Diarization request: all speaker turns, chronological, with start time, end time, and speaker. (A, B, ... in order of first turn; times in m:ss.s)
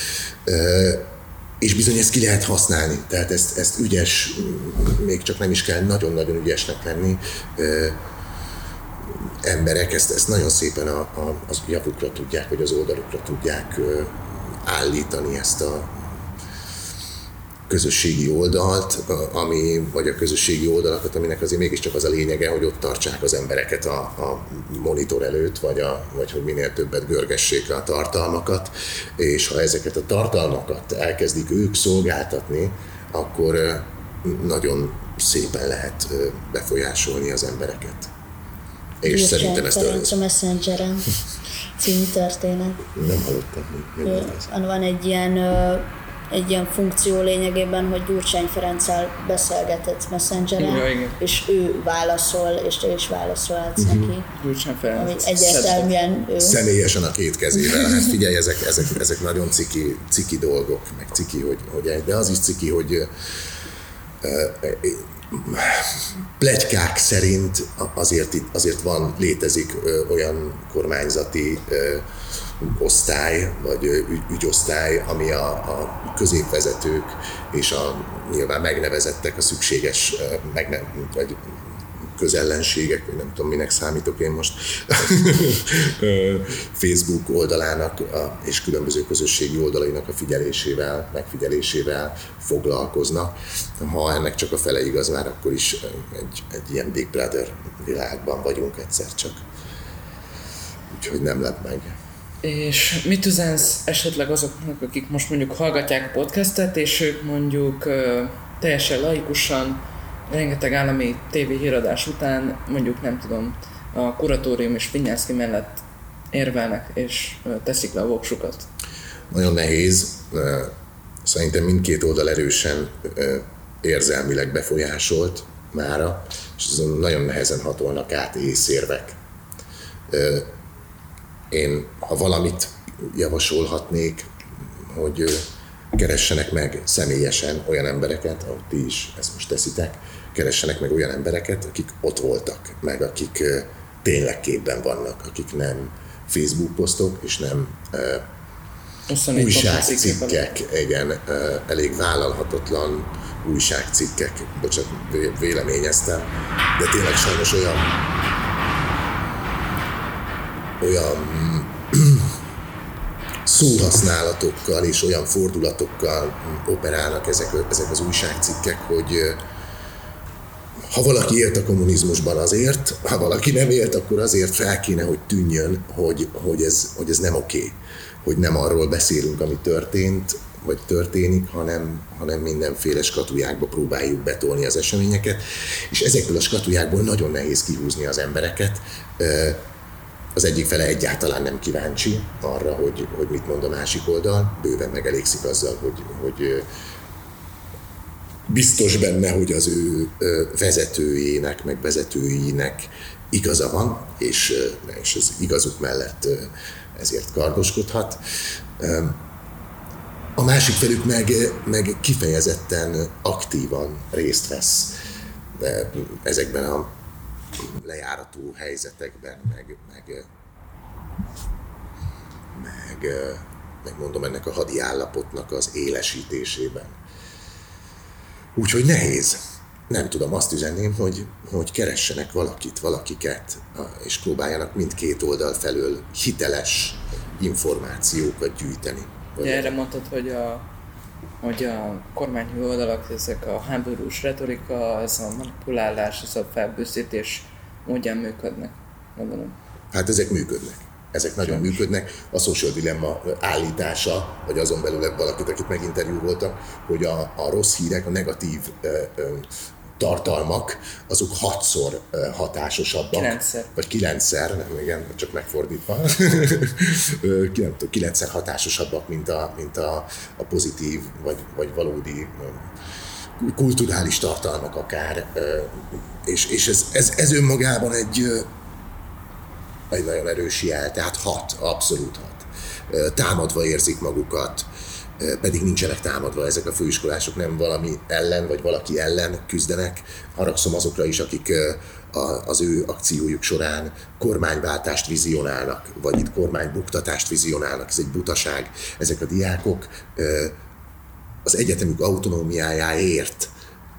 0:00.4-0:08.0 A
0:09.0-0:16.0 A
0:17.7-0:38.1 A
0:39.0-0:40.1 A
0:39.0-0:41.1 B
0:41.8-0:42.9 B
0:42.9-0:44.5 A
0:44.0-0:54.3 B
0:50.6-0:51.2 C
0:53.8-0:54.1 A
0:54.3-0:55.9 C
0:54.9-0:56.6 B
0:56.4-1:03.1 A
1:04.2-1:12.0 A
1:12.6-1:39.4 A
1:40.9-1:42.0 A
1:42.4-1:58.7 C
1:59.3-2:00.7 A
2:01.2-2:09.2 A
2:10.1-2:10.5 A
2:11.5-2:28.2 A
2:29.1-2:30.4 C
2:29.3-2:38.0 A
2:40.8-2:42.3 A
2:43.4-2:49.4 A
2:50.9-3:09.6 A
3:10.3-3:16.6 A
3:18.5-3:28.2 A
3:28.8-3:29.2 A
3:30.4-3:34.9 A
3:35.6-3:36.9 A
3:37.6-3:40.3 A
3:42.5-3:47.0 A
3:48.5-3:59.7 A
3:59.4-4:00.7 C
4:01.4-4:09.6 C
4:09.9-4:19.5 A
4:20.0-4:32.7 A
4:23.1-4:23.7 C
4:33.4-4:38.5 A
4:39.9-5:00.5 A
5:01.4-5:03.5 A